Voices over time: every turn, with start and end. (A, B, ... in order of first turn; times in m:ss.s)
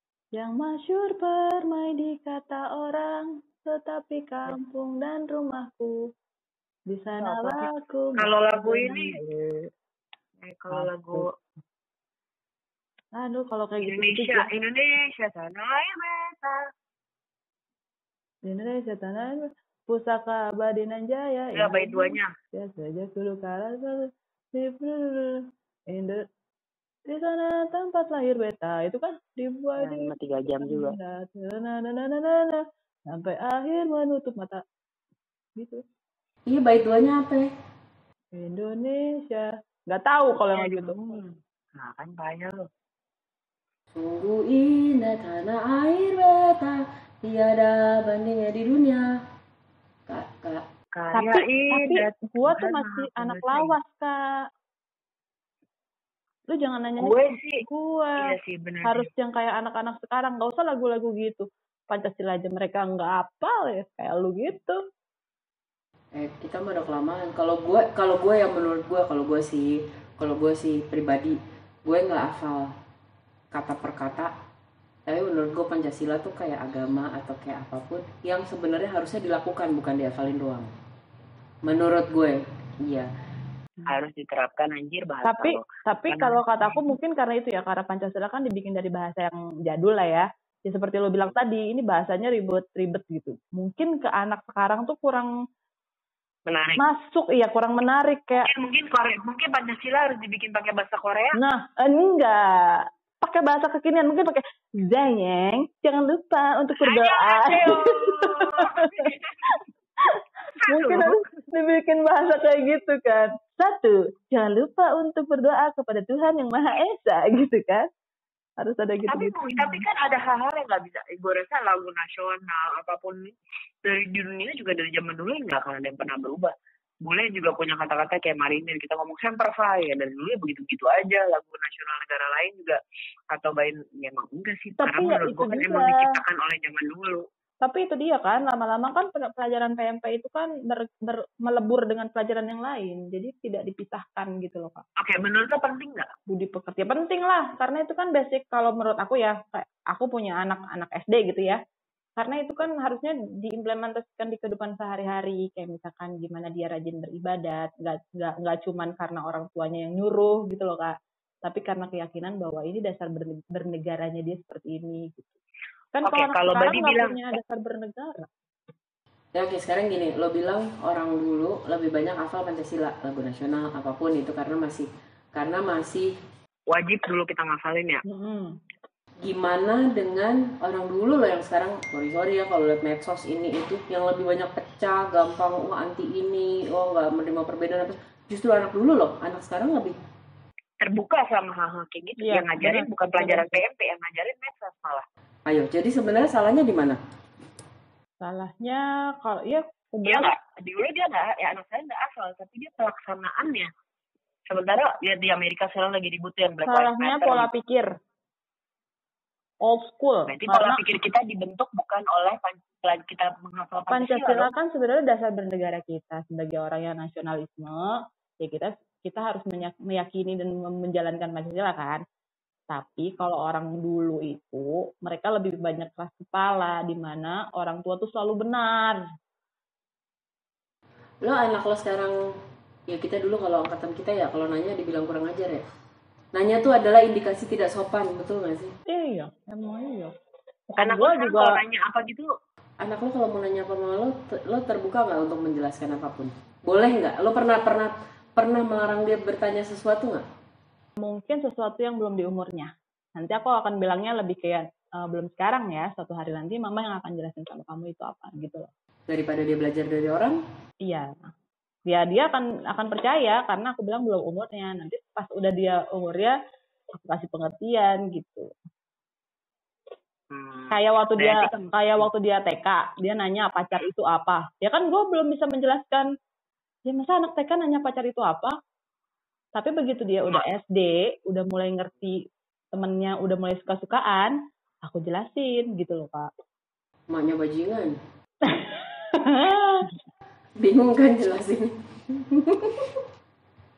0:00.4-0:06.0 A
0:06.9-0:09.7 A
0:07.2-0:09.2 B
0:10.4-0:11.3 B
0:10.7-0:11.3 A
0:13.2-0:14.5 A
0:13.8-0:16.7 B
0:18.4-0:26.2 A
0:21.6-0:22.3 B
0:27.1-0:34.6 A
0:29.8-0:31.0 B
0:35.6-0:35.8 A
0:36.5-0:37.5 C
0:38.3-0:41.0 A
0:40.5-0:42.6 B
0:43.9-0:49.0 C
0:50.1-0:50.6 C
0:51.0-0:53.8 B
0:51.1-0:54.2 A
0:56.5-1:04.8 A
0:57.0-0:57.6 B
0:58.2-0:59.1 B
1:06.1-1:12.7 C
1:13.5-1:14.3 C
1:15.1-1:20.7 C
1:21.6-1:23.1 C
1:23.9-1:26.8 B
1:25.2-1:35.3 A
1:36.5-1:36.8 B
1:36.8-1:38.5 A
1:38.4-1:41.4 B
1:41.4-1:49.5 A
1:46.8-1:49.4 B
1:50.1-1:57.9 A
1:50.6-1:51.2 B
1:58.6-1:59.8 A
1:59.1-2:06.5 B
2:07.1-2:12.8 B
2:13.3-2:17.3 B
2:14.8-2:16.1 A
2:17.6-2:24.8 A
2:25.0-2:26.1 B
2:26.3-2:31.6 A
2:32.2-2:45.4 A
2:45.9-2:48.3 A
2:46.0-2:47.2 B
2:49.4-2:56.1 C
2:56.7-2:58.0 B
2:58.1-2:58.5 A
2:59.2-3:10.0 C
3:10.8-3:15.0 B
3:12.2-3:13.5 A
3:15.5-3:17.0 C
3:18.2-3:20.3 A
3:20.0-3:23.7 B
3:24.5-3:27.5 B
3:26.6-3:27.9 A
3:29.6-3:30.8 A
3:30.3-3:34.5 B
3:33.9-3:42.0 A
3:42.7-3:49.0 A
3:51.2-3:52.2 C
3:52.9-3:55.6 C
3:56.3-3:58.7 C
3:58.9-4:00.1 A
4:00.7-4:01.6 A
4:00.8-4:02.3 B
4:02.8-4:10.2 C
4:11.0-4:18.7 A
4:19.1-4:20.4 C
4:20.8-4:21.3 A
4:21.9-4:26.4 A
4:26.9-4:28.5 A
4:30.3-4:32.0 B
4:30.7-4:36.1 A
4:36.9-4:38.6 A
4:39.6-4:42.2 A
4:42.7-4:46.3 A
4:47.1-4:47.9 C
4:48.5-4:49.9 A
4:50.6-4:53.0 C